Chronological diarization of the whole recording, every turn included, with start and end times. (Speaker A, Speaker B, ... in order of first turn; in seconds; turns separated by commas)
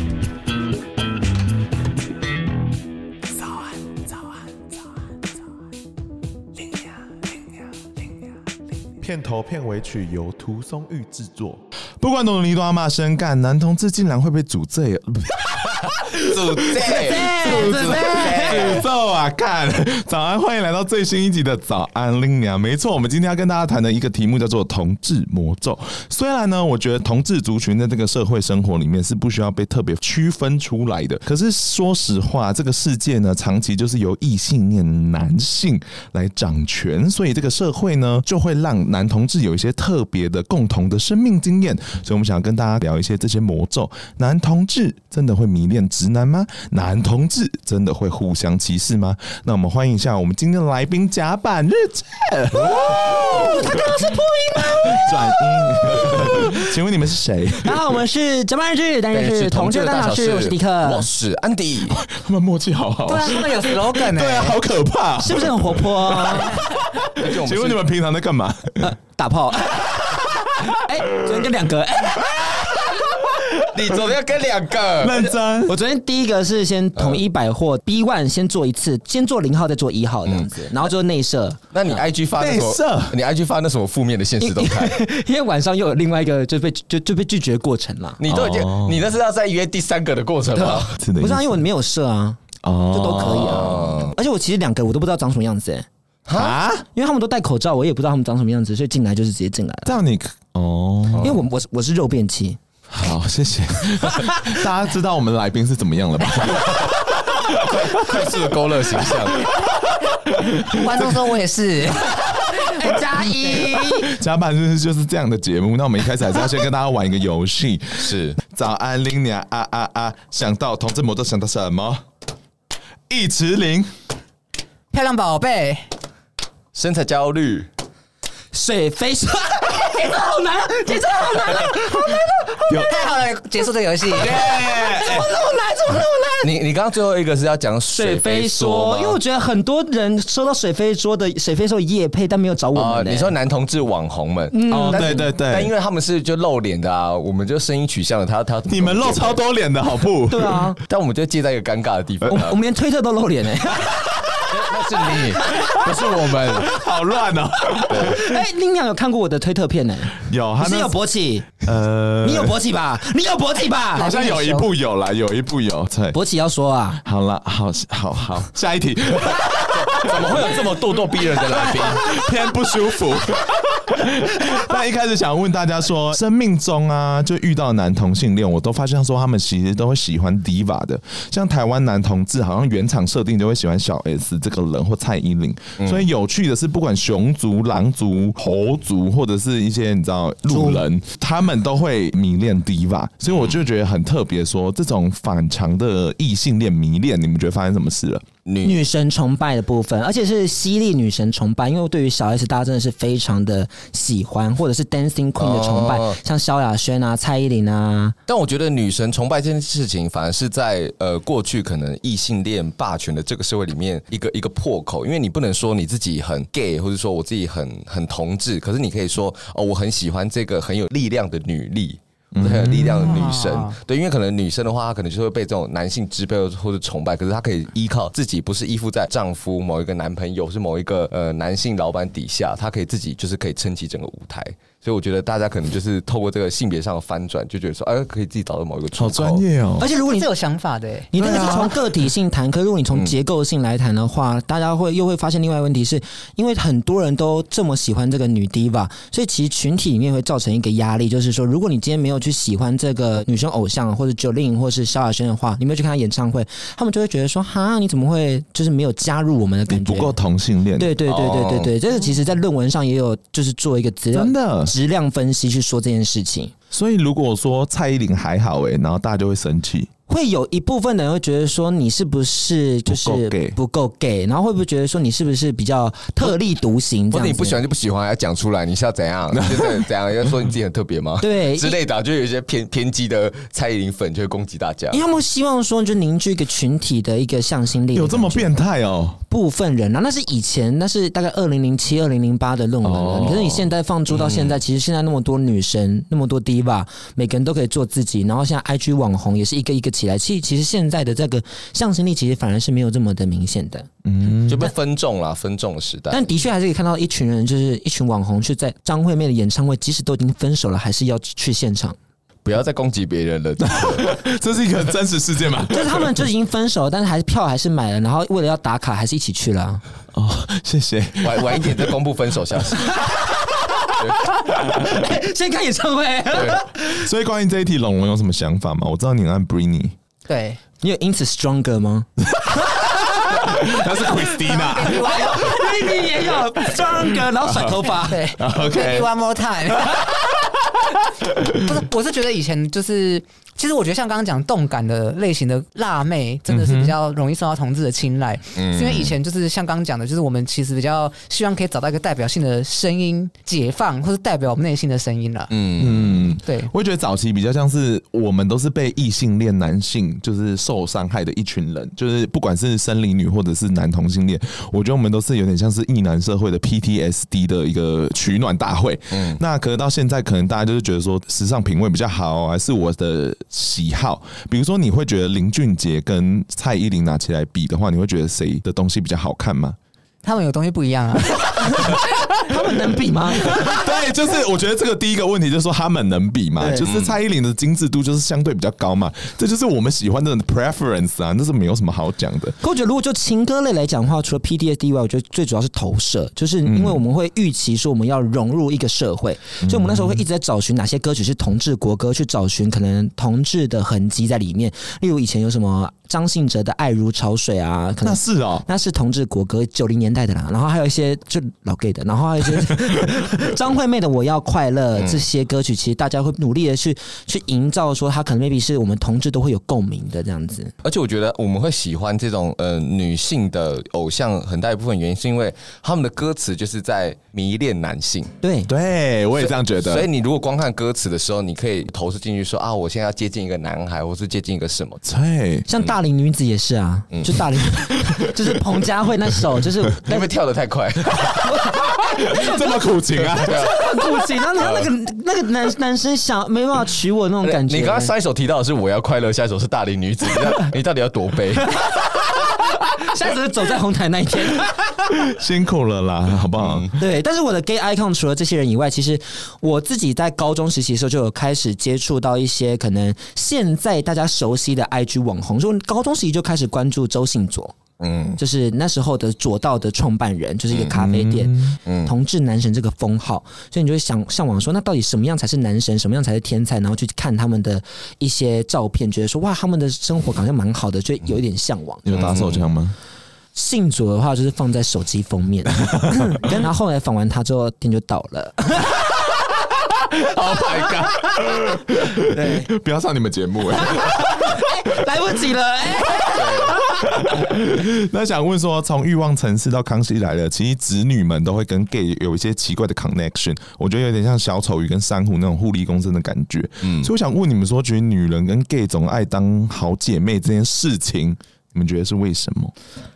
Speaker A: 9.0-57.8, Speaker B: 16.2-18.8, Speaker C: 16.9-18.8, Speaker C: 52.9-55.1, Speaker C: 55.7-56.7, Speaker C: 57.6-61.1, Speaker B: 59.1-62.0, Speaker A: 61.9-68.9, Speaker D: 63.0-64.6, Speaker C: 65.2-66.6, Speaker B: 67.1-67.8, Speaker C: 68.8-73.0, Speaker B: 73.7-75.3, Speaker A: 75.0-75.8, Speaker C: 75.7-81.6, Speaker B: 77.0-77.2, Speaker B: 80.2-80.9, Speaker B: 81.7-85.0, Speaker A: 82.3-83.2, Speaker C: 84.4-88.2, Speaker B: 88.2-91.0, Speaker A: 88.3-89.1, Speaker C: 90.5-95.8, Speaker A: 90.9-91.6, Speaker A: 92.6-93.8, Speaker B: 93.2-94.1, Speaker B: 96.2-96.5, Speaker A: 96.3-96.8, Speaker C: 96.9-99.9, Speaker A: 99.8-101.4, Speaker B: 101.1-101.4, Speaker C: 101.2-102.6, Speaker A: 102.9-108.4, Speaker B: 106.4-107.0, Speaker B: 107.7-109.5, Speaker A: 108.9-111.1, Speaker D: 110.6-112.7, Speaker A: 112.1-112.5, Speaker C: 112.5-114.1, Speaker A: 113.5-122.0, Speaker B: 118.0-118.4, Speaker A: 123.1-123.9, Speaker D: 124.9-125.9, Speaker B: 126.7-127.7, Speaker C: 128.5-132.6, Speaker A: 132.7-132.9, Speaker D: 132.9-134.4, Speaker A: 134.1-135.3, Speaker C: 134.7-136.5, Speaker B: 136.4-139.2, Speaker C: 137.9-143.3, Speaker B: 142.7-149.4, Speaker C: 144.5-145.3, Speaker A: 144.7-145.7, Speaker A: 148.7-150.6, Speaker C: 150.3-150.8, Speaker B: 150.9-152.6, Speaker C: 152.2-154.1, Speaker A: 153.9-154.4, Speaker B: 154.5-156.7, Speaker C: 155.1-155.7, Speaker A: 155.4-158.3, Speaker C: 157.8-161.5, Speaker B: 157.9-158.2, Speaker A: 160.2-161.0, Speaker A: 161.6-162.6, Speaker C: 162.2-164.1, Speaker A: 163.9-166.2, Speaker D: 164.0-164.7, Speaker C: 166.1-167.0, Speaker A: 167.0-170.8, Speaker B: 169.7-172.1, Speaker A: 171.3-198.2, Speaker B: 185.8-186.1, Speaker C: 190.5-190.8, Speaker B: 198.4-198.8, Speaker C: 198.6-208.1, Speaker B: 205.4-206.2, Speaker B: 208.3-239.4, Speaker A: 222.3-223.3, Speaker D: 223.0-223.8, Speaker A: 238.9-239.9, Speaker C: 239.8-240.3, Speaker D: 240.0-241.4, Speaker C: 241.1-260.1, Speaker A: 241.2-242.1, Speaker A: 259.7-261.0, Speaker C: 260.8-266.5, Speaker B: 261.1-261.7, Speaker A: 264.1-264.7, Speaker A: 266.7-269.9, Speaker C: 270.1-277.6, Speaker A: 272.9-273.6, Speaker B: 277.1-285.0, Speaker A: 279.3-279.9, Speaker C: 281.2-281.8, Speaker C: 284.9-288.5, Speaker A: 287.9-289.2, Speaker C: 289.3-303.9, Speaker A: 292.8-293.7, Speaker B: 294.1-294.6, Speaker A: 304.0-304.7, Speaker B: 304.5-306.3, Speaker C: 306.1-311.9, Speaker B: 312.4-314.2, Speaker A: 313.6-316.2, Speaker C: 315.7-319.8, Speaker A: 320.1-321.9, Speaker B: 321.2-323.0, Speaker C: 322.9-327.1, Speaker B: 324.0-324.2, Speaker B: 326.3-326.6, Speaker A: 326.9-329.9, Speaker D: 330.3-330.6, Speaker C: 330.8-338.2, Speaker A: 332.3-339.1, Speaker D: 334.5-335.6, Speaker D: 338.1-340.3, Speaker A: 341.2-341.8, Speaker D: 341.5-355.5, Speaker A: 346.5-347.0, Speaker B: 348.5-349.1, Speaker B: 355.5-356.3, Speaker A: 355.8-379.8, Speaker D: 356.4-356.7, Speaker B: 369.1-369.4, Speaker D: 380.2-382.0, Speaker C: 381.6-383.8, Speaker A: 383.4-392.6, Speaker C: 386.6-386.9, Speaker B: 386.8-387.2, Speaker C: 392.6-420.7, Speaker A: 396.6-397.0, Speaker A: 399.6-400.2, Speaker A: 408.0-408.6, Speaker A: 412.6-413.2, Speaker B: 414.9-415.2, Speaker B: 420.8-428.3, Speaker C: 428.4-428.7, Speaker A: 428.7-430.1, Speaker B: 429.4-435.0, Speaker A: 435.0-435.7, Speaker C: 435.7-440.3, Speaker B: 437.1-437.4, Speaker B: 440.1-441.4, Speaker C: 441.4-441.8, Speaker A: 442.1-443.7, Speaker B: 443.1-444.0, Speaker C: 443.4-448.1, Speaker B: 444.5-444.9, Speaker B: 447.4-451.7, Speaker C: 451.7-455.2, Speaker A: 455.3-456.9, Speaker B: 456.6-456.9, Speaker C: 457.0-467.8, Speaker B: 468.0-468.4, Speaker C: 468.4-482.0, Speaker A: 470.9-471.8, Speaker B: 471.9-472.1, Speaker A: 482.1-482.9, Speaker B: 482.1-482.6, Speaker C: 483.5-489.1, Speaker B: 490.3-491.1, Speaker A: 490.9-494.6, Speaker C: 492.3-492.7, Speaker C: 493.8-497.0, Speaker B: 496.3-496.8, Speaker A: 497.1-512.7, Speaker B: 506.8-507.1